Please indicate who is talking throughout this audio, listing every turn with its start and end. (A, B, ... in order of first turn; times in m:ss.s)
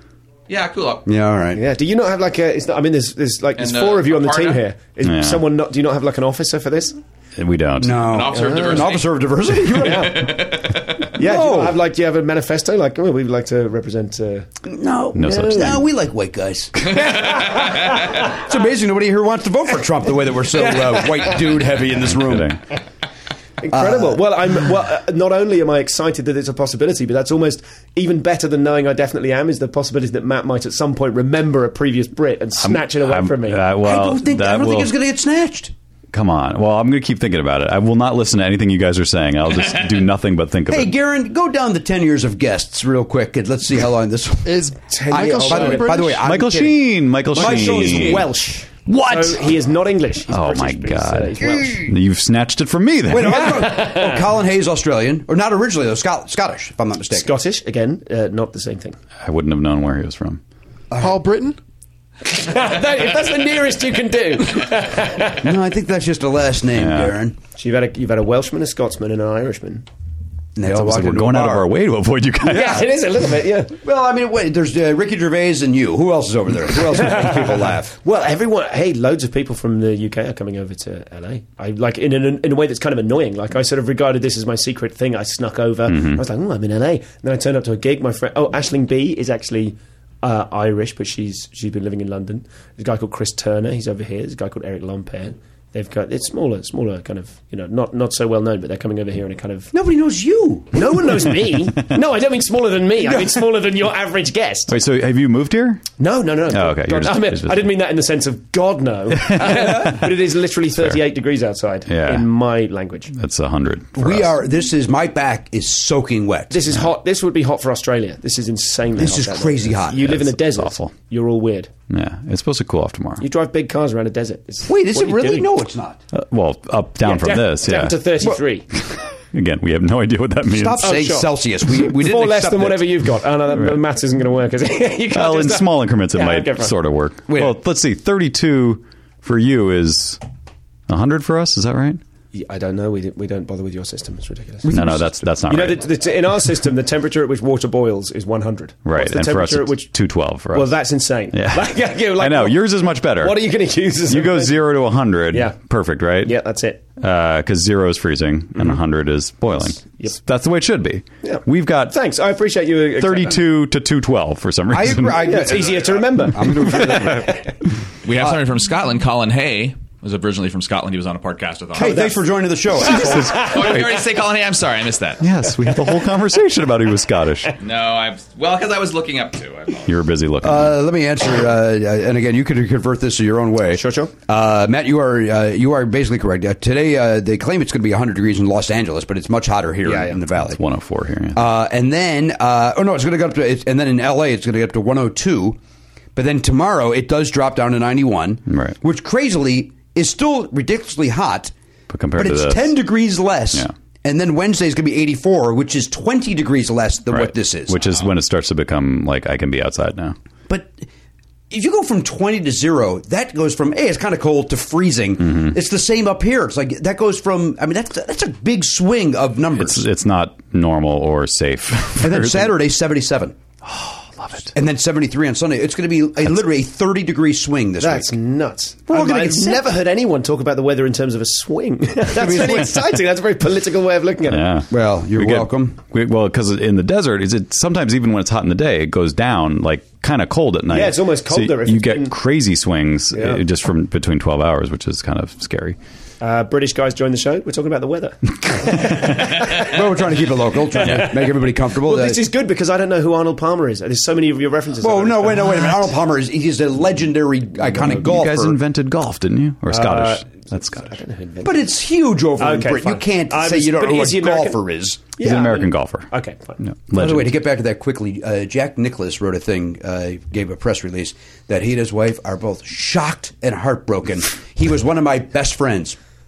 0:00.5-0:01.0 A
0:01.0-0:01.6 B
0:01.5-0:07.0 C
0:03.6-0:04.6 A
0:05.0-0:05.4 D
0:07.4-0:08.2 D
0:07.8-0:10.3 B
0:08.0-0:09.2 A
0:08.3-0:09.0 C
0:09.7-0:14.5 C
0:10.0-0:11.1 A
0:11.1-0:11.8 B
0:14.6-0:17.6 B
0:15.1-0:15.8 D
0:15.4-0:15.8 C
0:16.8-0:18.1 C
0:17.3-0:18.0 A
0:18.3-0:22.5 B
0:20.6-0:21.4 C
0:22.0-0:22.6 D
0:23.6-0:33.7 C
0:23.7-0:24.2 B
0:32.6-0:34.9 D
0:33.8-0:35.7 B
0:36.1-0:40.9 D
0:40.7-0:48.3 B
0:44.4-0:46.2 E
0:45.0-0:46.0 C
0:46.2-0:48.3 D
0:47.3-0:51.9 C
0:48.9-0:49.2 B
0:50.3-0:53.7 D
0:53.1-0:57.3 B
0:53.2-0:54.2 C
0:57.1-0:59.0 C
0:59.2-1:00.4 D
1:00.9-1:01.2 B
1:01.0-1:01.6 E
1:02.2-1:05.5 C
1:05.4-1:07.4 B
1:06.7-1:07.2 D
1:07.6-1:09.8 C
1:10.6-1:11.7 B
1:10.6-1:12.9 D
1:12.4-1:13.7 C
1:13.8-1:17.9 B
1:16.7-1:39.7 C
1:25.9-1:26.2 D
1:39.7-1:41.0 B
1:40.7-1:44.8 C
1:43.0-1:43.4 B
1:44.7-1:45.8 D
1:46.0-1:53.1 C
1:46.5-1:47.6 D
1:49.1-1:50.0 D
1:50.7-1:51.0 D
1:51.9-1:52.3 D
1:53.1-1:54.4 D
1:54.0-1:56.6 B
1:56.5-2:01.7 C
1:59.0-2:00.3 B
2:00.3-2:00.9 D
2:01.9-2:03.2 D
2:03.2-2:05.5 C
2:04.6-2:06.0 B
2:06.1-2:08.0 D
2:07.0-2:08.6 C
2:08.8-2:11.0 D
2:10.5-2:12.9 B
2:10.8-2:16.7 C
2:13.5-2:13.8 D
2:15.1-2:20.2 D
2:17.3-2:17.6 B
2:20.9-2:22.0 D
2:22.3-2:29.9 C
2:24.7-2:25.0 B
2:24.7-2:25.9 D
2:28.8-2:30.8 D
2:30.5-2:34.6 C
2:31.3-2:33.4 D
2:34.1-2:36.4 D
2:35.3-2:35.6 C
2:36.2-2:36.8 C
2:37.0-2:41.9 D
2:41.2-2:43.4 C
2:43.0-2:45.4 D
2:44.7-2:47.4 B
2:45.2-2:47.4 C
2:48.0-2:52.0 A
2:51.7-2:53.2 B
2:51.8-2:53.9 C
2:52.8-2:53.9 D
2:53.1-2:55.2 A
2:55.2-2:57.5 D
2:57.6-2:59.9 A
2:59.9-3:00.8 D
3:00.4-3:10.6 B
3:03.7-3:04.1 C
3:09.8-3:10.2 C
3:10.4-3:11.4 D
3:11.3-3:15.6 B
3:16.1-3:21.5 B
3:18.5-3:18.8 D
3:21.9-3:22.8 D
3:22.2-3:27.8 B
3:27.1-3:30.2 D
3:30.5-3:30.9 B
3:31.5-3:39.8 B
3:35.2-3:35.6 D
3:39.6-3:42.6 D
3:42.0-3:43.4 B
3:43.6-3:44.5 D
3:44.5-3:48.1 B
3:47.8-3:54.5 C
3:48.9-3:49.6 B
3:52.1-3:52.8 B
3:54.3-4:05.8 D
3:54.7-3:55.8 B
4:00.7-4:02.1 C
4:03.1-4:03.4 C
4:06.2-4:09.8 C
4:09.6-4:12.2 B
4:10.7-4:15.9 C
4:14.8-4:18.6 B
4:17.8-4:21.0 D
4:19.7-4:21.7 C
4:21.4-4:25.0 B
4:22.4-4:24.6 C
4:25.2-4:26.6 C
4:25.2-4:27.4 D
4:26.9-4:36.0 B